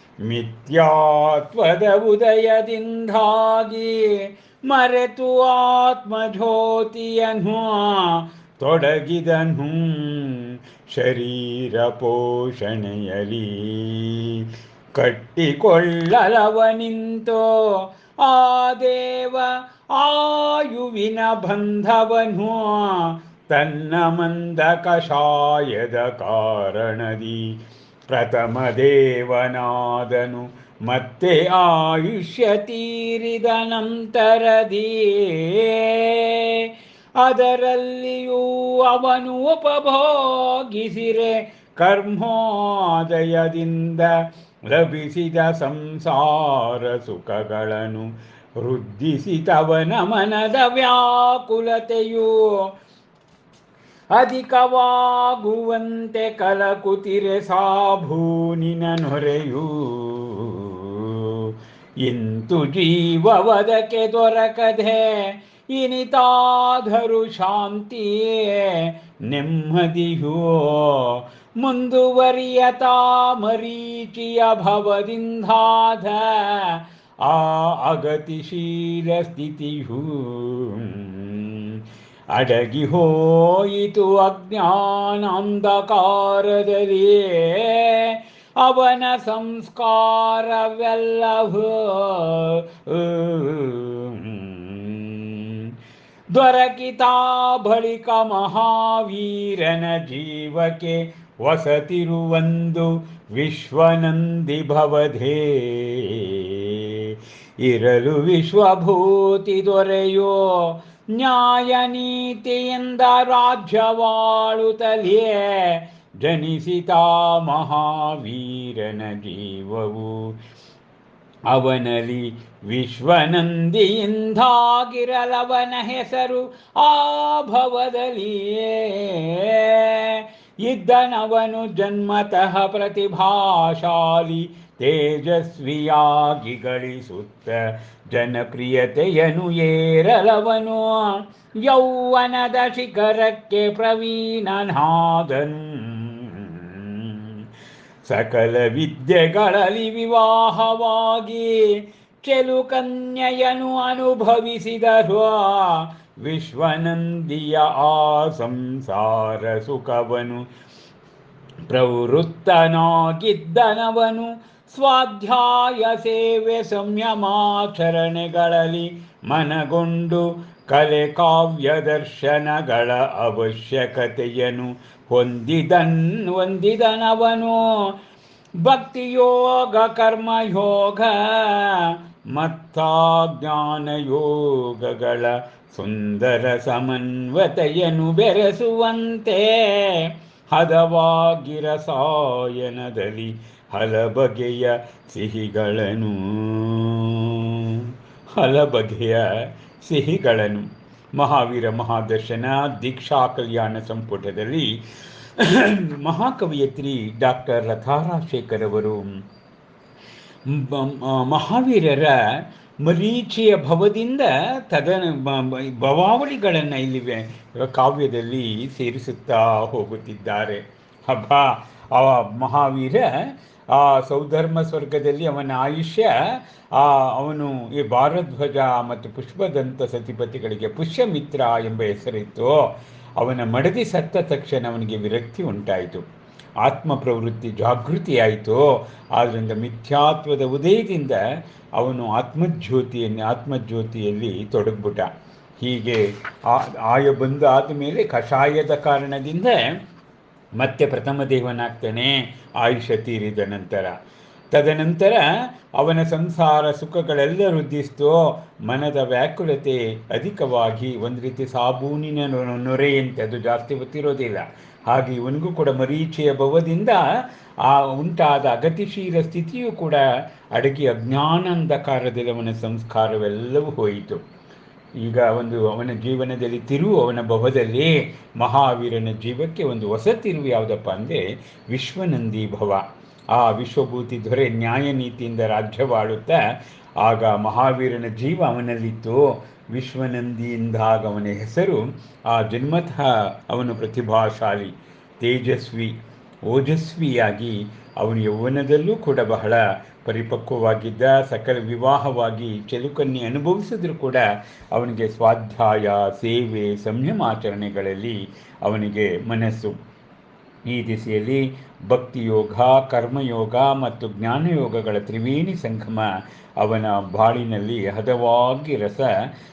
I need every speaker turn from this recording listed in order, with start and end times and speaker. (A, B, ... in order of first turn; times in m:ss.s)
0:00.2-0:27.6 A
0:28.1-0:52.6 A
0:54.1-1:21.8 A
1:22.3-1:35.7 A
1:36.3-2:00.3 A
2:01.5-2:27.4 A
2:28.0-2:40.4 A
2:41.7-2:57.9 A
2:58.6-3:24.8 A
3:25.4-3:29.2 A
3:30.5-3:52.6 A
3:53.2-3:56.0 A
3:56.6-4:01.2 A
4:01.8-4:05.1 A
4:05.6-4:09.6 A
4:10.6-4:13.9 A
4:14.5-4:27.0 A
4:27.6-4:30.0 A
4:30.5-4:34.2 A
4:35.0-4:46.4 A
4:47.0-5:09.8 A
5:10.6-5:19.1 A